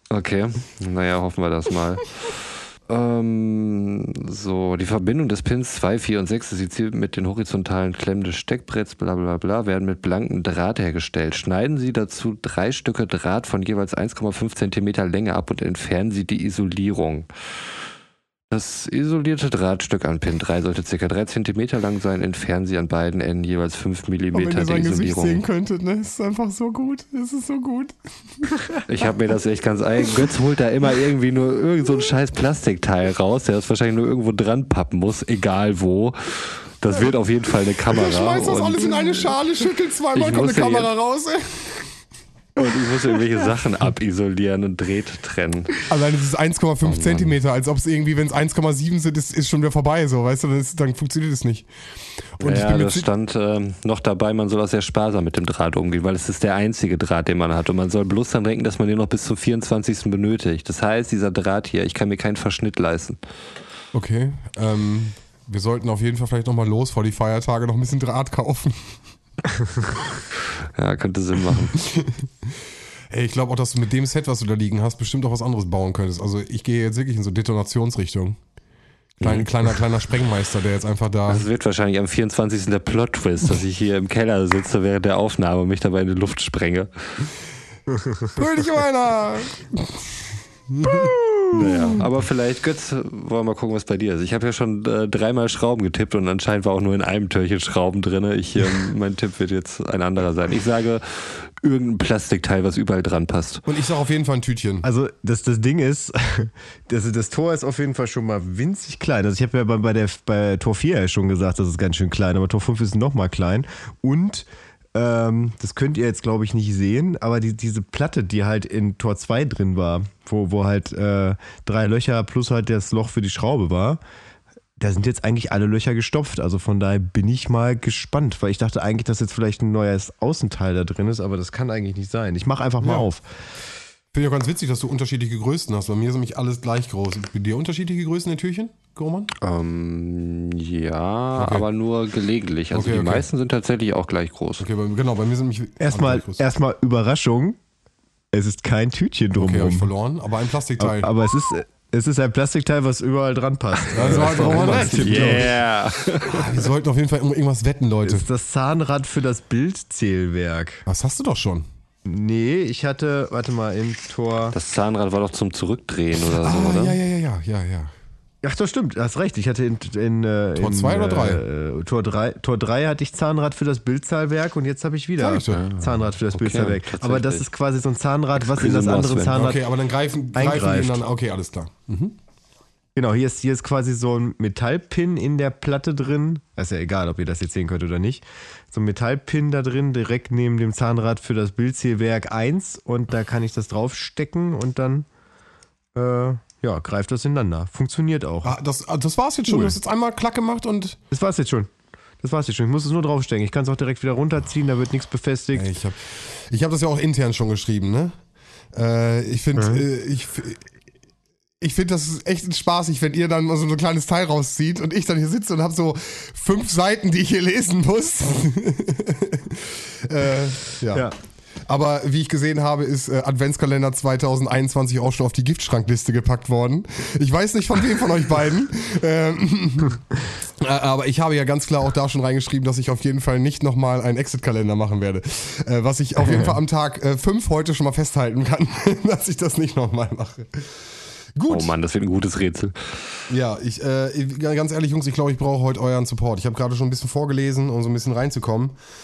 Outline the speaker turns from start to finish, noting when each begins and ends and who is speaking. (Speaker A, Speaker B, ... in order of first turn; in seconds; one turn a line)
Speaker A: 0.1-17.3
Speaker A: 18.5-25.4
Speaker B: 24.3-28.6
Speaker A: 28.9-39.3
Speaker B: 37.9-42.0
Speaker A: 40.1-40.9
Speaker A: 42.6-45.7
Speaker B: 45.8-51.7
Speaker A: 46.8-47.4
Speaker B: 52.4-53.1
Speaker A: 52.4-63.2
Speaker B: 63.9-68.9
Speaker A: 70.7-71.8
Speaker B: 73.1-78.4
Speaker A: 79.2-79.5
Speaker B: 79.2-81.5
Speaker A: 81.3-87.3
Speaker B: 88.3-90.2
Speaker A: 91.5-103.6
Speaker B: 103.6-104.9
Speaker C: 104.8-124.0
Speaker C: 124.8-133.2
Speaker B: 132.8-133.1
Speaker B: 134.1-139.3
Speaker A: 139.4-144.7
Speaker B: 141.3-141.7
Speaker B: 142.7-143.3
Speaker B: 144.6-146.4
Speaker C: 145.8-147.6
Speaker C: 148.3-149.9
Speaker B: 149.3-151.1
Speaker C: 150.8-155.5
Speaker A: 153.9-156.6
Speaker B: 153.9-155.4
Speaker B: 156.3-158.3
Speaker C: 158.0-160.8
Speaker B: 160.8-161.6
Speaker C: 162.0-164.6
Speaker A: 164.5-167.0
Speaker B: 166.3-167.9
Speaker C: 168.4-179.6
Speaker B: 170.5-171.4
Speaker B: 175.2-175.7
Speaker A: 175.5-177.5
Speaker A: 178.3-179.5
Speaker B: 179.2-182.1
Speaker C: 180.3-181.0
Speaker C: 182.9-195.1
Speaker C: 195.9-198.6
Speaker B: 198.4-201.0
Speaker C: 199.4-199.8
Speaker C: 201.1-201.7
Speaker C: 202.2-205.7
Speaker B: 205.5-208.1
Speaker B: 208.7-210.6
Speaker C: 209.6-209.8
Speaker B: 211.6-221.1
Speaker B: 221.7-230.1
Speaker B: 230.6-240.7
Speaker C: 236.2-236.5
Speaker B: 241.3-241.8
Speaker A: 241.5-242.9
Speaker B: 243.3-248.8